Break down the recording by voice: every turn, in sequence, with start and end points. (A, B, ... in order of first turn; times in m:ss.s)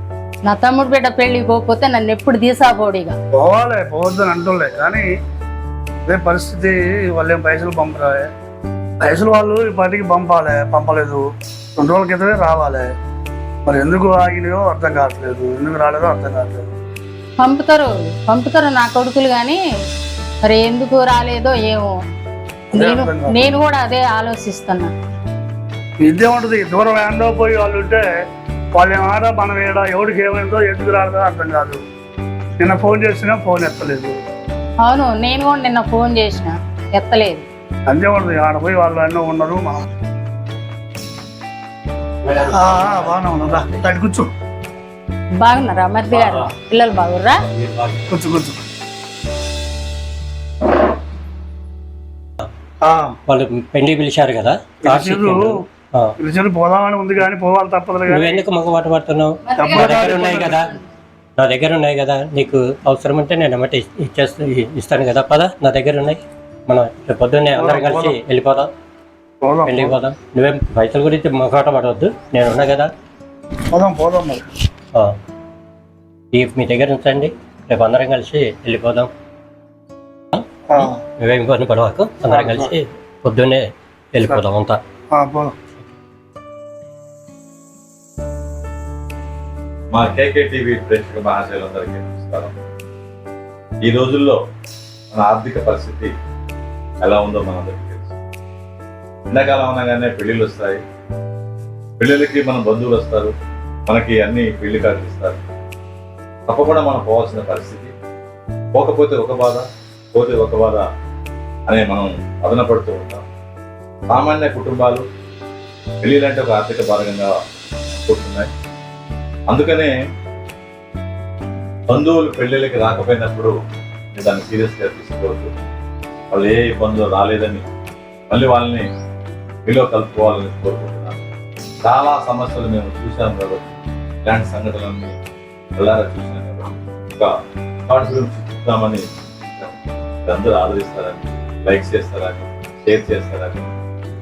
0:00.4-0:03.2 A
0:03.3-0:05.0 B
0:06.1-0:08.2 B
0:09.0-0:11.2 B
0:11.8-0:12.8 B
0:13.6-0:16.7 B
0:17.4-0:19.6 A
0:20.4-0:21.9 A
0:22.7-0:23.4 B
0:22.7-0:24.9 A
0:26.0-0:28.0 B
0:28.7-0:31.8 B
0:32.6-0:34.2 B
0:34.8-0:37.5 A
0:37.9-0:39.8 B
0:42.3-0:44.3 B
0:45.4-0:47.4 A
0:48.1-0:48.6 B
0:52.8-0:53.2 B
0:53.3-0:56.1 C
0:54.8-0:55.6 B
0:56.2-0:58.4 B
0:58.1-1:00.7 C
0:59.5-1:00.8 A
0:59.6-1:00.6 B
1:01.4-1:08.7 C
1:07.6-1:08.2 B
1:09.4-1:10.0 B
1:09.6-1:12.9 C
1:13.7-1:14.4 B
1:16.3-1:19.1 C
1:20.3-1:24.8 C
1:20.7-1:21.0 B
1:22.2-1:22.7 B
1:25.1-1:25.5 B
1:29.9-1:32.5 D
1:33.8-1:34.4 D
1:35.1-1:36.1 D
1:37.0-1:38.0 D
1:39.3-1:40.8 D
1:42.0-1:43.3 D
1:43.9-1:45.4 D
1:46.5-1:47.9 D
1:48.8-1:50.8 D
1:51.6-1:53.2 D
1:54.1-1:55.0 D
1:56.0-1:57.3 D
1:57.9-1:58.5 D
1:59.5-1:59.9 D
2:01.9-2:03.5 D
2:04.1-2:05.5 D
2:06.3-2:07.6 D
2:08.3-2:08.9 D
2:09.6-2:11.2 D
2:11.8-2:13.7 D
2:14.2-2:15.2 D
2:15.8-2:17.3 D
2:17.9-2:23.7 D